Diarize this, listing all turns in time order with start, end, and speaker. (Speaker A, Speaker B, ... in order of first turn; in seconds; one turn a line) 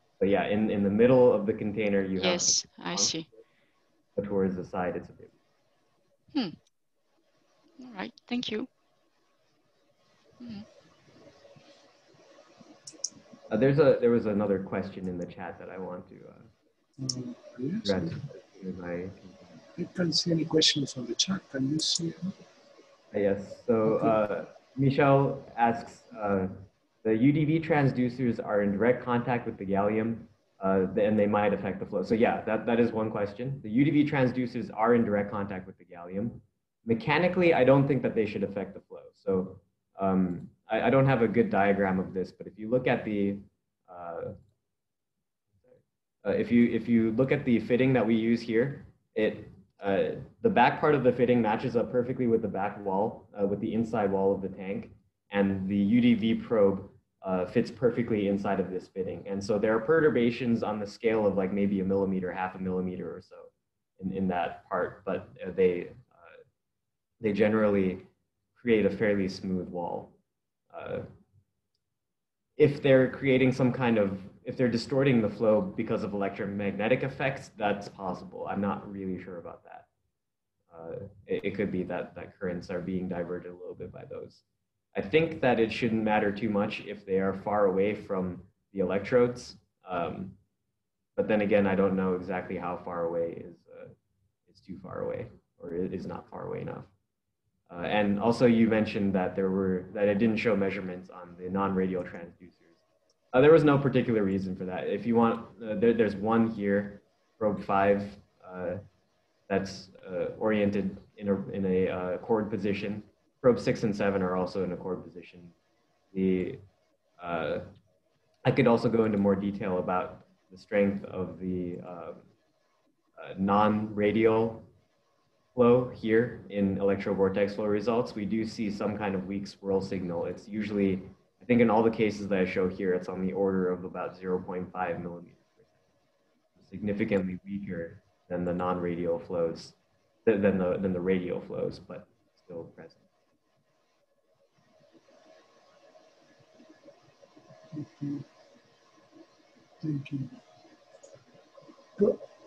Speaker A: 0.2-3.2
Speaker B: 2.2-3.2
Speaker A: 4.2-5.3
Speaker B: 7.8-8.7
Speaker B: 10.4-10.7
Speaker A: 13.5-16.5
Speaker C: 17.0-18.1
Speaker A: 17.8-19.5
Speaker C: 19.8-22.3
Speaker A: 23.1-44.4
Speaker A: 45.7-66.3
Speaker A: 67.2-70.1
Speaker A: 70.7-71.1
Speaker A: 72.6-79.9
Speaker A: 80.7-84.4
Speaker A: 84.9-90.4
Speaker A: 91.2-93.9
Speaker A: 94.5-96.9
Speaker A: 97.7-102.8
Speaker A: 103.3-108.8
Speaker A: 109.5-115.5
Speaker A: 116.1-116.6
Speaker A: 117.2-117.7
Speaker A: 118.4-122.2
Speaker A: 123.2-124.7
Speaker A: 125.5-135.8
Speaker A: 136.6-143.0
Speaker C: 147.7-148.2
Speaker C: 149.8-150.4